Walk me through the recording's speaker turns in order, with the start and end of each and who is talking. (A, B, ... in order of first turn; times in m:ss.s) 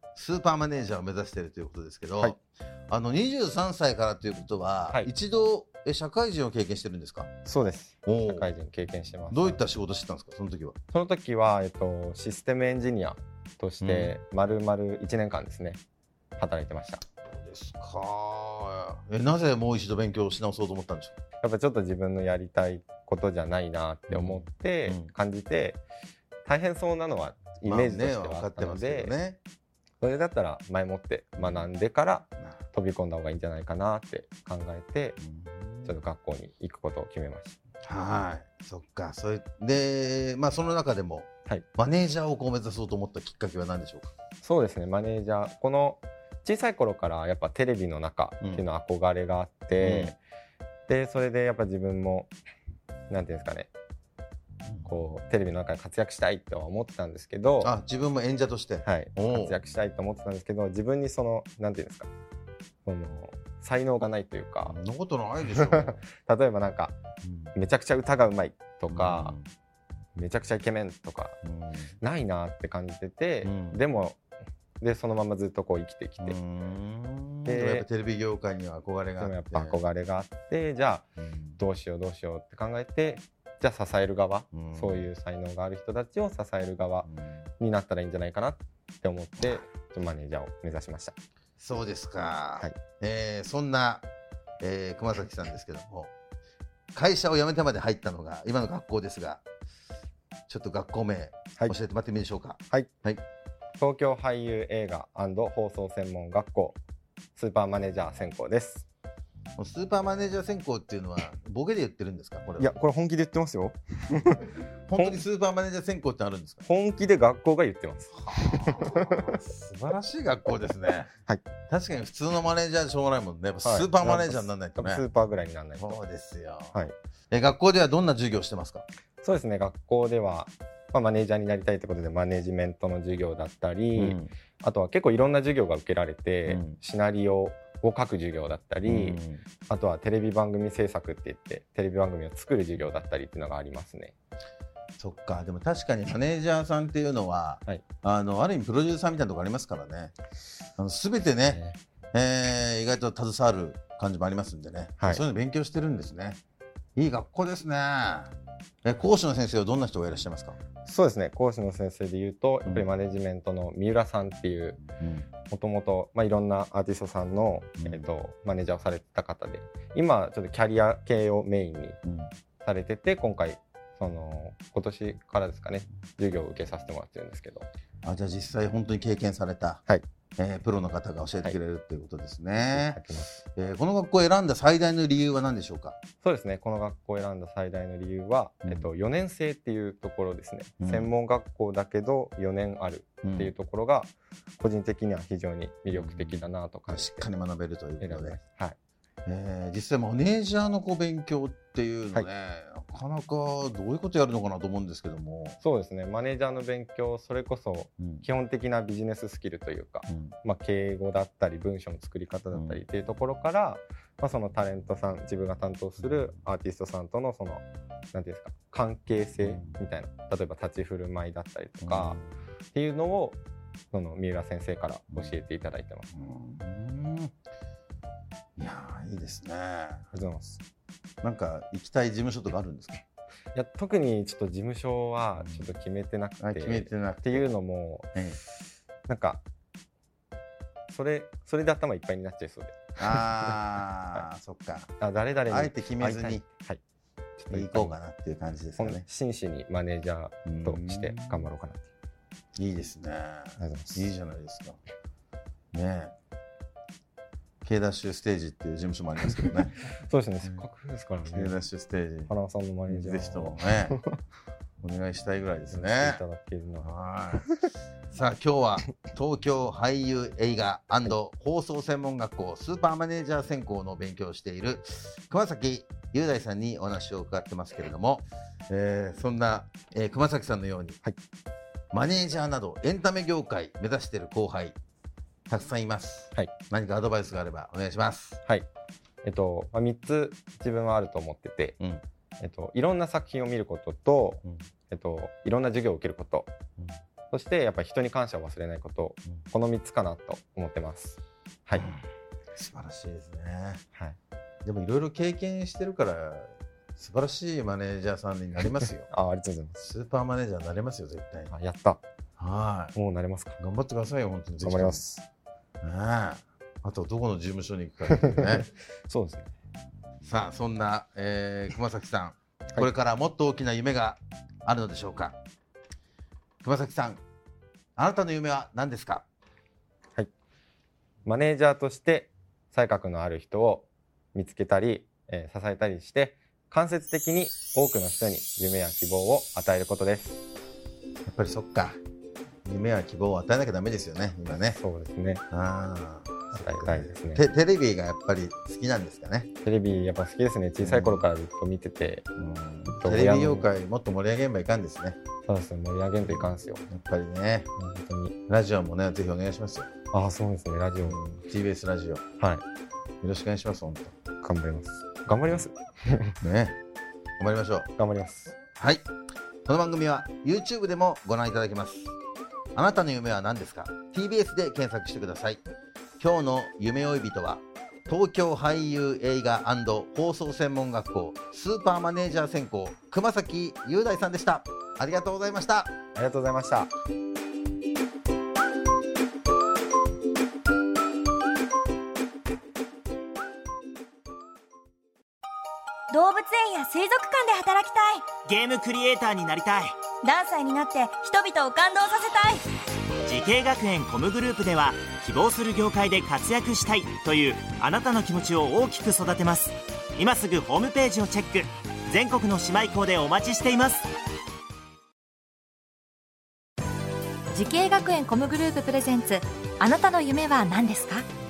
0:00.1-0:07.3 A
0:07.4-0:09.6 B
0:08.0-0:08.5 A
0:09.3-0:10.8 A
0:10.9-0:15.8 B
0:13.8-0:14.1 A
0:16.4-0:17.0 B
0:17.3-0:21.1 A
0:21.4-0:25.8 B
0:24.1-0:25.1 A
0:26.4-0:29.2 B
0:27.6-0:29.4 A
0:30.0-0:35.2 B
0:31.4-0:31.7 A
0:35.2-0:35.9 A
0:35.8-0:37.6 B
0:37.8-0:44.1 A
0:44.4-0:50.2 B
0:49.8-0:50.2 A
0:50.9-0:52.3 B
0:53.1-0:53.7 B
0:54.8-0:57.7 B
0:57.6-0:59.6 A
0:58.8-1:02.1 B
1:02.8-1:04.8 B
1:04.6-1:06.0 A
1:05.5-1:06.9 B
1:07.2-1:07.5 A
1:07.5-1:09.4 B
1:08.9-1:09.5 A
1:10.2-1:11.4 B
1:11.4-1:11.9 A
1:12.0-1:14.2 B
1:13.4-1:13.8 A
1:14.8-1:16.4 B
1:16.2-1:19.8 A
1:17.4-1:17.8 B
1:19.2-1:21.0 B
1:21.2-1:21.6 A
1:21.6-1:27.1 B
1:24.5-1:25.1 A
1:27.0-1:27.4 A
1:27.6-1:31.1 B
1:31.6-1:34.0 A
1:34.6-1:36.1 A
1:36.9-1:39.4 A
1:40.5-1:43.2 A
1:43.8-1:46.8 B
1:47.4-1:48.8 B
1:49.6-1:52.7 A
1:52.6-1:54.4 B
1:54.9-1:56.6 A
1:55.0-1:55.2 B
1:56.6-1:59.4 B
1:58.2-2:01.1 A
2:01.7-2:05.0 A
2:03.6-2:06.0 B
2:05.8-2:06.8 A
2:07.3-2:08.8 A
2:09.2-2:24.1 B
2:13.9-2:14.3 A
2:16.4-2:16.8 A
2:18.8-2:19.4 A
2:25.0-2:30.1 A
2:30.8-2:31.6 A
2:31.5-2:31.8 B
2:32.1-2:36.4 A
2:37.0-2:38.3 A
2:38.8-2:40.6 A
2:40.8-2:44.8 B
2:42.6-2:42.9 A
2:45.0-2:45.3 A
2:45.4-2:52.0 B
2:47.8-2:48.0 A
2:52.0-2:52.3 A
2:52.6-2:57.7 B
2:58.0-2:59.8 A
3:00.4-3:03.0 A
3:02.6-3:03.4 B
3:03.6-3:06.0 A
3:06.2-3:17.3 B
3:10.8-3:11.1 A
3:13.2-3:13.5 A
3:15.9-3:18.4 A
3:18.0-3:18.8 B
3:19.2-3:25.6 A
3:25.6-3:42.2 B
3:28.0-3:28.2 A
3:30.1-3:30.4 A
3:32.5-3:32.8 A
3:36.1-3:36.3 A
3:39.4-3:39.8 A
3:41.8-3:42.3 A
3:42.7-3:43.4 B
3:43.9-3:46.1 B
3:46.1-3:47.3 A
3:48.6-3:50.1 A
3:50.1-3:50.6 B
3:51.2-3:53.0 A
3:53.5-3:58.1 B
3:55.4-3:55.7 A
3:56.4-3:57.5 A
3:58.1-3:58.4 A
3:59.1-3:59.4 B
4:00.9-4:03.2 B
4:03.0-4:04.9 A
4:05.0-4:06.8 B
4:05.5-4:06.4 A
4:07.4-4:08.0 B
4:07.5-4:09.0 A
4:08.8-4:11.8 B
4:10.4-4:11.5 A
4:12.6-4:14.8 A
4:13.6-4:14.0 B
4:15.7-4:16.1 A
4:17.6-4:19.8 A
4:20.0-4:21.6 B
4:21.3-4:22.3 A
4:22.3-4:24.1 B
4:22.9-4:24.0 A
4:24.8-4:26.2 A
4:25.7-4:26.9 B
4:26.8-4:27.4 A
4:28.1-4:41.0 A
4:41.9-4:44.8 A
4:45.5-4:48.4 A
4:49.2-4:51.8 B
4:52.4-4:56.5 B
4:57.3-5:01.9 B
5:01.8-5:02.0 A
5:02.5-5:03.8 A
5:04.6-5:09.1 A
5:09.1-5:09.8 B
5:09.8-5:11.5 A
5:11.5-5:12.0 B
5:12.4-5:12.9 A
5:12.9-5:13.6 B
5:13.6-5:15.0 A
5:14.6-5:15.2 B
5:15.8-5:18.7 A
5:18.2-5:19.5 B
5:20.2-5:25.4 A
5:26.6-5:27.2 A
5:28.0-5:29.2 A
5:31.2-5:40.4 B
5:41.2-5:42.0 A
5:42.6-5:44.8 A
5:44.7-5:45.4 B
5:45.5-5:49.5 A
5:46.5-5:47.4 B
5:49.6-5:52.2 B
5:50.8-5:51.3 A
5:52.4-5:55.2 A
5:53.0-5:53.7 B
5:55.4-5:56.8 B
5:56.2-5:57.7 A
5:57.8-5:58.4 B
5:58.5-5:59.9 A
6:00.1-6:01.2 B
6:01.0-6:02.2 A
6:02.4-6:02.6 B
6:03.2-6:04.1 A
6:04.4-6:06.3 B
6:06.4-6:06.8 A
6:07.4-6:07.9 A
6:08.0-6:08.6 B
6:08.8-6:09.1 A
6:09.6-6:12.1 A
6:12.7-6:15.6 A
6:16.2-6:25.9 A
6:26.1-6:26.9 B
6:36.1-6:38.4 C
6:38.4-6:40.0 D
6:40.2-6:42.6 C
6:43.2-6:54.1 D
6:57.5-7:01.2 E